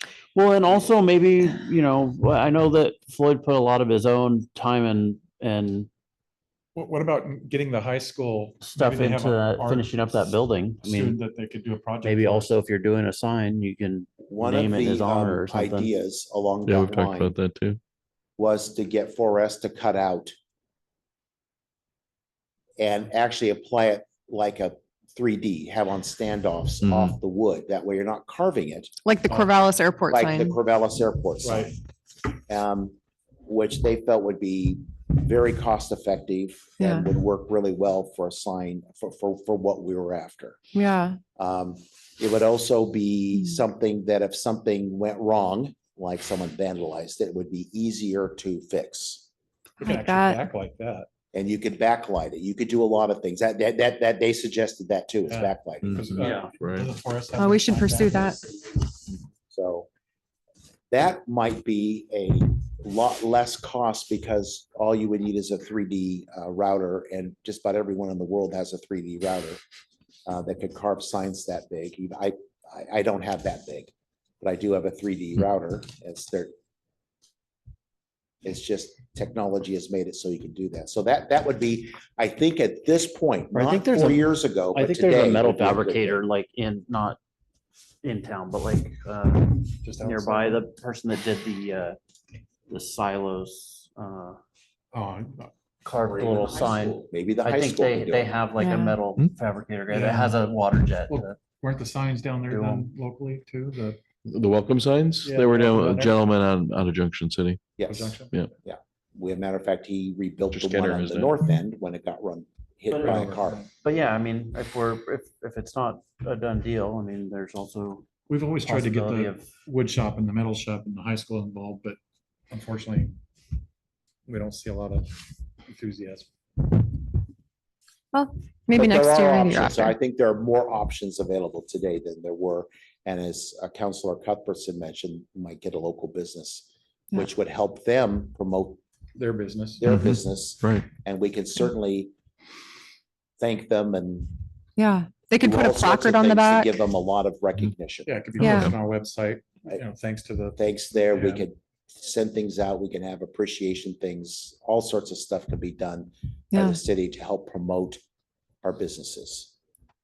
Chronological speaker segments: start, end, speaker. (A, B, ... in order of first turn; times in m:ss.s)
0:00.3-0:05.9 A
0:06.7-0:10.0 B
0:08.6-0:11.2 A
0:10.8-0:12.6 B
0:12.0-0:15.9 A
0:14.3-0:17.3 C
0:16.6-0:17.8 D
0:18.4-0:20.3 C
0:22.8-0:28.9 C
0:26.8-0:27.2 D
0:29.0-0:30.6 E
0:29.3-0:29.5 B
0:30.1-0:31.7 C
0:31.4-0:31.7 B
0:32.5-0:40.6 C
0:36.8-0:37.0 E
0:40.7-0:41.2 E
0:41.4-0:49.2 C
0:49.8-0:51.1 B
0:49.8-0:50.5 E
0:51.3-0:56.1 C
0:55.3-0:58.7 B
0:55.8-0:56.9 D
0:56.2-0:56.5 A
0:57.4-0:58.4 E
0:59.5-0:59.9 C
1:00.9-1:09.6 C
1:10.2-1:16.5 C
1:18.4-1:26.2 C
1:23.5-1:27.2 A
1:28.0-1:32.0 A
1:29.8-1:30.6 B
1:32.7-1:34.4 A
1:34.9-1:35.5 B
1:35.8-1:41.4 A
1:36.1-1:38.4 C
1:38.6-1:39.0 E
1:39.9-1:40.4 B
1:41.1-1:44.0 B
1:42.5-1:42.9 A
1:44.2-1:47.6 D
1:45.2-1:46.2 B
1:47.8-1:53.6 C
1:47.8-1:48.3 B
1:50.5-1:51.3 D
1:52.9-1:58.0 A
1:53.0-1:53.6 B
1:58.3-2:02.0 B
1:58.6-1:59.5 A
2:02.5-2:03.2 B
2:04.3-2:05.1 B
2:05.7-2:06.3 B
2:08.1-2:09.9 E
2:08.7-2:18.8 C
2:19.2-2:19.8 B
2:19.8-2:22.1 C
2:19.8-2:20.9 D
2:23.4-2:24.3 C
2:24.8-2:26.8 E
2:25.4-2:28.1 C
2:28.0-2:31.4 B
2:28.4-2:28.7 E
2:28.4-2:28.7 D
2:30.6-2:38.0 C
2:36.5-2:36.8 E
2:38.6-2:39.5 C